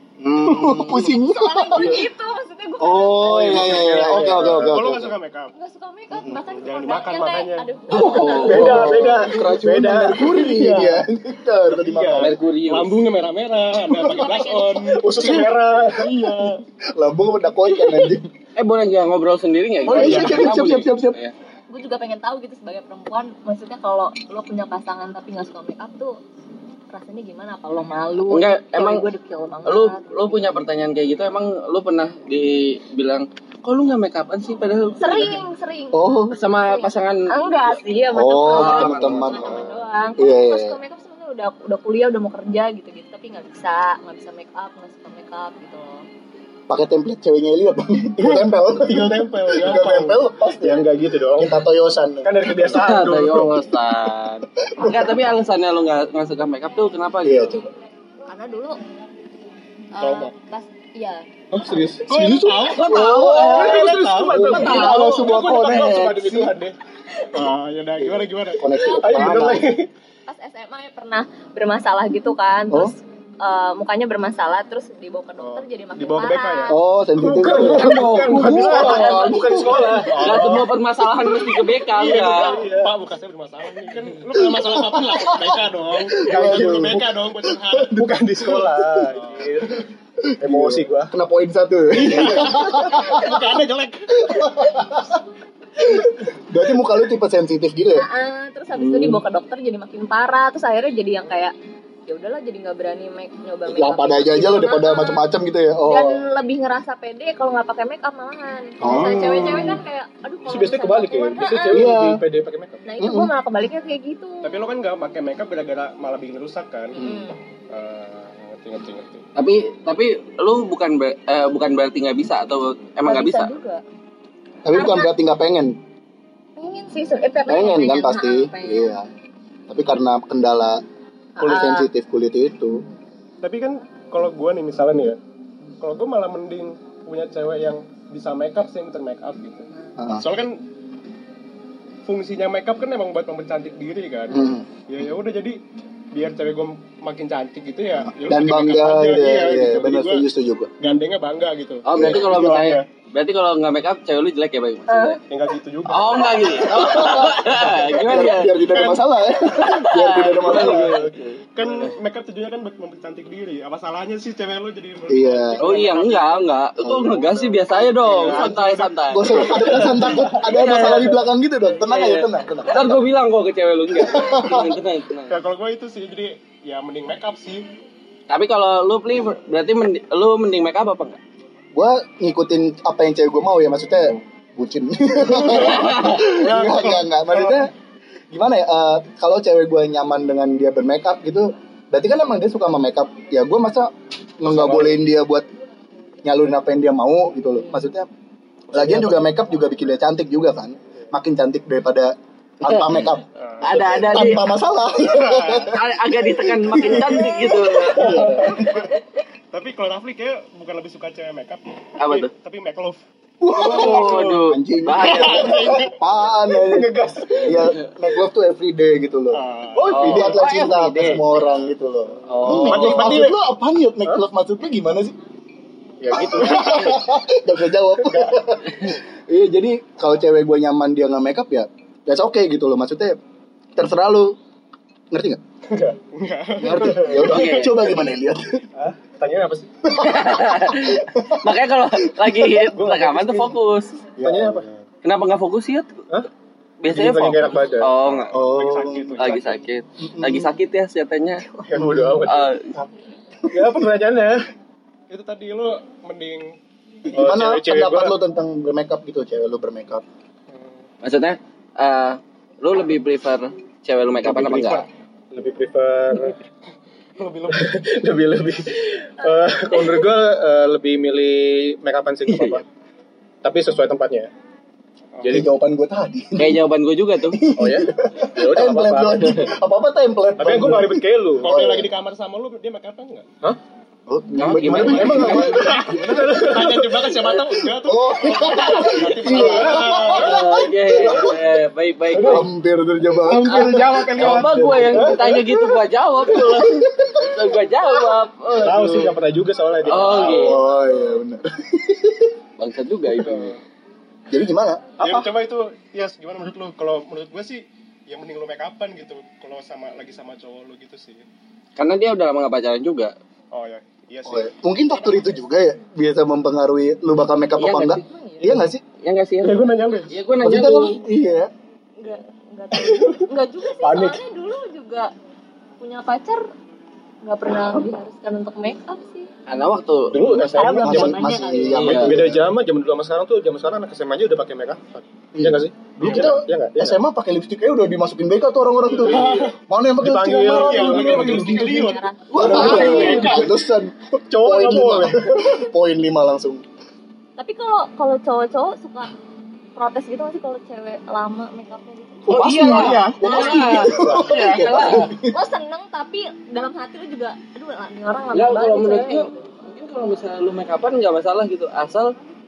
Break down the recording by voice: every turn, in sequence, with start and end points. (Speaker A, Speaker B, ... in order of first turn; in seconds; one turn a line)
Speaker A: 0.2-1.1
Speaker B: 0.3-2.0
Speaker C: 1.4-3.8
Speaker B: 2.8-5.1
Speaker D: 3.3-5.5
Speaker E: 3.5-4.9
Speaker C: 5.5-8.6
Speaker D: 6.4-7.7
Speaker A: 7.9-8.8
Speaker B: 7.9-12.3
Speaker D: 8.4-11.0
Speaker E: 8.5-10.9
Speaker D: 11.7-16.6
Speaker E: 12.0-12.2
Speaker A: 12.2-13.1
Speaker B: 14.0-14.3
Speaker C: 14.0-14.9
Speaker E: 15.0-16.1
Speaker B: 15.1-18.3
Speaker A: 18.6-21.3
Speaker B: 19.8-21.2
Speaker D: 19.9-20.6
Speaker C: 21.7-26.2
Speaker C: 26.9-30.4
Speaker A: 28.3-29.0
Speaker A: 29.6-35.4
Speaker C: 35.0-46.0
Speaker B: 35.9-36.4
Speaker A: 36.3-37.5
Speaker B: 38.1-40.8
Speaker A: 38.4-39.7
Speaker B: 46.7-52.3
Speaker D: 48.7-50.2
Speaker E: 49.1-51.5
Speaker E: 52.2-53.4
Speaker A: 52.6-57.6
Speaker D: 52.9-53.5
Speaker B: 54.7-55.2
Speaker B: 57.2-57.6
Speaker C: 58.3-58.8
Speaker C: 59.9-61.3
Speaker D: 60.0-60.3
Speaker E: 61.6-62.0
Speaker B: 62.0-66.5
Speaker D: 62.1-66.7
Speaker A: 62.5-65.1
Speaker E: 64.3-64.6
Speaker D: 67.3-69.8
Speaker B: 68.0-69.7
Speaker E: 69.0-69.7
Speaker C: 70.3-76.8
Speaker D: 75.4-79.4
Speaker B: 76.7-80.6
Speaker E: 77.4-80.6
Speaker A: 77.6-79.5
Speaker C: 78.8-79.8
Speaker D: 80.0-80.7
Speaker A: 80.1-82.6
Speaker D: 81.8-88.0
Speaker E: 82.4-83.0
Speaker B: 84.3-89.2
Speaker E: 86.2-86.9
Speaker E: 88.0-89.8
Speaker D: 89.1-89.7
Speaker B: 90.2-93.4
Speaker E: 90.4-91.1
Speaker D: 91.9-94.5
Speaker B: 94.2-95.1
Speaker C: 94.4-94.9
Speaker B: 95.8-98.0
Speaker C: 97.9-101.5
Speaker B: 98.7-99.2
Speaker C: 102.1-105.2
Speaker B: 103.7-106.2
Speaker C: 105.9-111.9
Speaker B: 108.8-109.8
Speaker D: 108.8-109.5
Speaker E: 108.9-109.3
Speaker E: 110.5-112.8
Speaker B: 111.7-112.2
Speaker C: 112.8-114.6
Speaker B: 113.0-113.3
Speaker D: 114.4-117.0
Speaker C: 117.0-117.4
Speaker B: 117.0-117.3
Speaker D: 117.7-119.2
Speaker A: 119.3-123.5
Speaker C: 123.0-123.8
Speaker B: 124.6-125.8
Speaker C: 124.7-125.1
Speaker C: 126.5-128.9
Speaker B: 127.5-129.1
Speaker B: 129.7-130.8
Speaker C: 131.4-131.9
Speaker B: 131.4-132.8
Speaker D: 133.4-135.2
Speaker D: 135.8-139.7
Speaker B: 140.0-140.2
Speaker D: 140.2-140.7
Speaker D: 142.0-145.6
Speaker B: 144.3-144.7
Speaker D: 146.1-150.2
Speaker B: 148.2-150.7
Speaker D: 150.8-152.8
Speaker A: 151.8-155.2
Speaker B: 151.9-152.4
Speaker C: 154.9-155.2
Speaker D: 155.3-159.0
Speaker A: 155.8-161.9
Speaker B: 156.7-161.1
Speaker D: 160.3-166.5
Speaker B: 165.1-165.7
Speaker A: 165.6-171.2
Speaker B: 166.8-168.5
Speaker D: 168.0-170.8
Speaker B: 169.1-173.0
Speaker A: 171.8-175.4
Speaker B: 173.9-174.7
Speaker D: 175.3-177.7
Speaker A: 178.3-181.2
Speaker B: 181.7-187.7
Speaker D: 185.3-187.7
Speaker A: 185.6-186.2
Speaker B: 188.3-195.5
Speaker D: 194.5-194.8
Speaker B: 196.2-198.1
Speaker D: 198.7-199.2
Speaker B: 198.7-208.9
Speaker D: 203.3-204.3
Speaker A: 203.6-204.5
Speaker D: 205.0-205.7
Speaker A: 205.7-208.4
Speaker D: 207.9-209.0
Speaker E: 208.0-208.3
Speaker D: 209.5-217.7
Speaker A: 212.0-212.3
Speaker B: 213.4-225.2
Speaker A: 213.5-215.9
Speaker E: 216.6-217.4
Speaker A: 217.4-217.9
Speaker D: 219.3-220.4
Speaker A: 219.9-221.2
Speaker A: 222.3-223.2
Speaker D: 222.4-223.4
Speaker E: 226.0-226.7
Speaker D: 226.1-227.0
Speaker B: 226.1-233.2
Speaker B: 233.8-234.4
Speaker B: 235.1-235.4
Speaker D: 235.8-237.9
Speaker B: 236.6-238.6
Speaker A: 237.1-237.9
Speaker E: 238.8-239.7
Speaker B: 239.8-241.5
Speaker A: 240.0-244.1
Speaker D: 242.7-243.5
Speaker E: 244.2-244.7
Speaker D: 244.2-244.7
Speaker A: 245.0-246.0
Speaker A: 246.8-248.3
Speaker E: 246.9-247.9
Speaker D: 247.5-249.6
Speaker B: 248.3-249.3
Speaker A: 249.2-251.5
Speaker B: 250.0-250.5
Speaker E: 251.7-252.5
Speaker B: 251.7-252.2
Speaker A: 252.2-252.7
Speaker E: 253.5-254.4
Speaker D: 255.1-256.6
Speaker B: 257.1-260.0
Speaker D: 257.1-257.6
Speaker E: 257.2-258.1
Speaker D: 260.5-260.8
Speaker A: 261.0-264.9
Speaker D: 264.2-264.8
Speaker E: 264.7-266.4
Speaker D: 267.2-267.8
Speaker E: 267.5-272.6
Speaker A: 272.3-272.6
Speaker E: 273.4-274.3
Speaker D: 275.2-275.4
Speaker E: 275.2-275.4
Speaker B: 275.2-276.6
Speaker A: 276.4-277.4
Speaker B: 277.3-281.9
Speaker E: 277.5-279.3
Speaker E: 280.4-281.5
Speaker D: 281.4-283.3
Speaker B: 284.1-291.3
Speaker A: 284.3-285.6
Speaker D: 284.6-291.4
Speaker A: 288.3-292.5
Speaker D: 292.1-292.4
Speaker B: 292.2-295.4
Speaker D: 293.2-295.4
Speaker A: 293.3-299.1
Speaker B: 296.2-297.3
Speaker D: 298.6-300.9
Speaker E: 298.6-300.3
Speaker A: 299.9-300.6
Speaker B: 300.3-302.3
Speaker A: 302.6-303.6
Speaker D: 303.2-303.6
Speaker B: 304.3-305.2
Speaker D: 305.0-311.2
Speaker A: 311.8-313.1
Speaker D: 313.5-314.5
Speaker B: 314.2-318.8
Speaker A: 317.6-318.0
Speaker C: 318.0-318.5
Speaker A: 319.0-321.0
Speaker D: 319.4-320.1
Speaker B: 320.4-321.5
Speaker C: 322.0-325.1
Speaker B: 322.7-323.2
Speaker B: 323.8-324.2
Speaker C: 325.8-326.4
Speaker C: 327.2-329.3
Speaker A: 329.5-330.6
Speaker E: 330.1-331.2
Speaker D: 330.1-331.2
Speaker C: 330.5-332.0
Speaker B: 330.8-332.4
Speaker A: 331.7-332.2
Speaker D: 331.8-332.4
Speaker E: 331.9-337.0
Speaker B: 335.3-346.6
Speaker D: 336.0-336.4
Speaker D: 339.0-343.6
Speaker E: 340.1-341.9
Speaker C: 340.5-343.4
Speaker E: 342.4-343.3
Speaker A: 342.6-343.3
Speaker E: 344.3-345.2
Speaker C: 347.4-349.1
Speaker C: 349.8-352.5
Speaker B: 352.3-355.3
Speaker A: 352.3-355.1
Speaker D: 352.7-354.2
Speaker C: 353.2-353.9
Speaker C: 355.2-359.4
Speaker A: 358.3-362.1